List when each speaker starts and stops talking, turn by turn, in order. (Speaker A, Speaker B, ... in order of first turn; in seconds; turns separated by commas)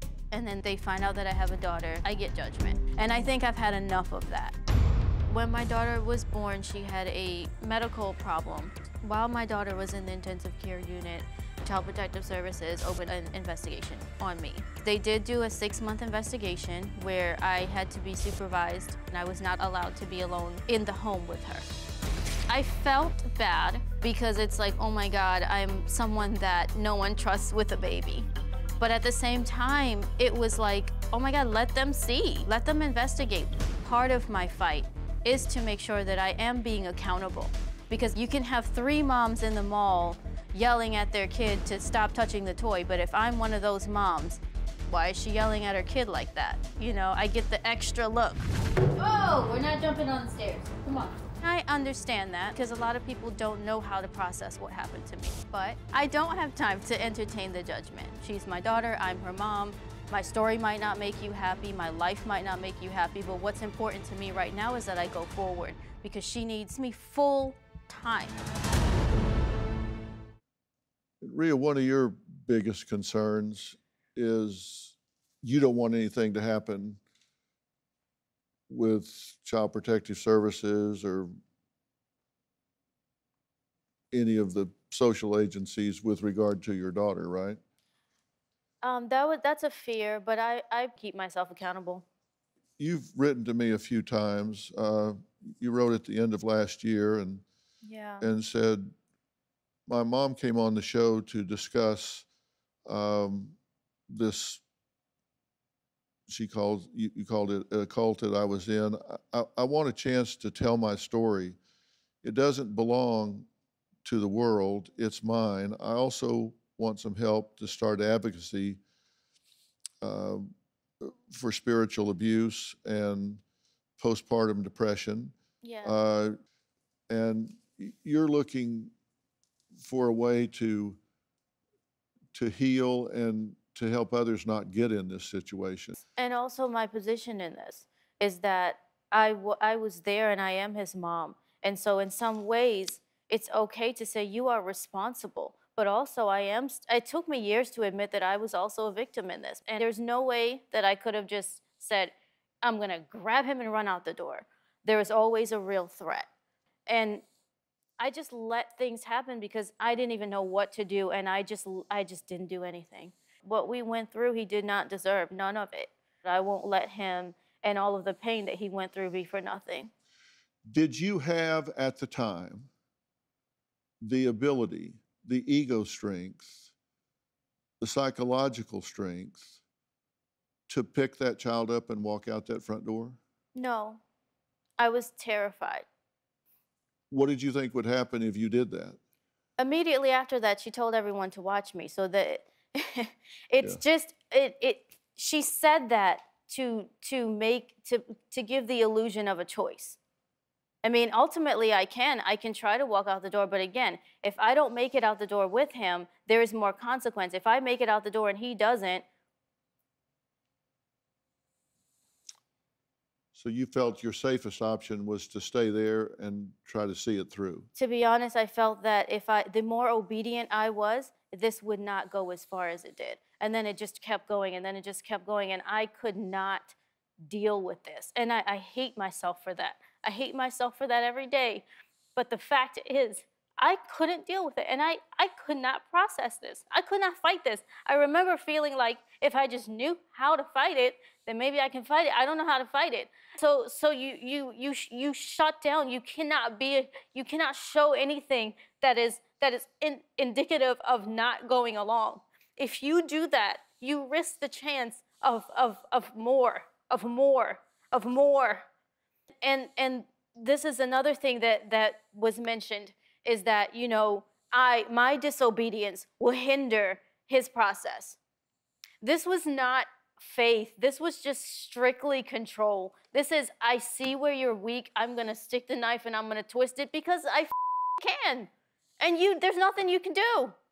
Speaker A: 0.3-4.5, Speaker A: 5.3-21.7, Speaker A: 22.5-28.3, Speaker A: 28.8-68.4, Speaker B: 71.2-77.0, Speaker B: 78.7-81.3, Speaker B: 84.1-87.6, Speaker A: 88.8-92.0, Speaker B: 92.8-97.4, Speaker A: 97.8-98.3, Speaker B: 98.2-98.9, Speaker B: 99.9-102.2, Speaker B: 102.9-103.5, Speaker B: 104.1-104.6, Speaker B: 106.3-111.6, Speaker B: 112.2-113.5, Speaker B: 114.0-118.8, Speaker B: 120.0-120.5, Speaker B: 121.0-123.4, Speaker B: 124.0-126.3, Speaker A: 125.6-126.0, Speaker B: 127.1-128.9, Speaker B: 129.8-131.0, Speaker B: 132.3-135.9, Speaker A: 136.0-156.3, Speaker A: 156.9-157.2, Speaker A: 158.0-169.9, Speaker B: 170.7-172.7, Speaker B: 174.0-176.7, Speaker B: 177.8-179.6, Speaker B: 180.7-183.2, Speaker A: 183.5-184.0, Speaker A: 184.8-185.8, Speaker B: 187.1-189.0, Speaker A: 189.6-200.0, Speaker A: 200.8-209.0, Speaker B: 213.3-217.7, Speaker A: 217.8-231.6, Speaker A: 232.2-258.7, Speaker A: 259.4-268.2, Speaker A: 269.0-280.6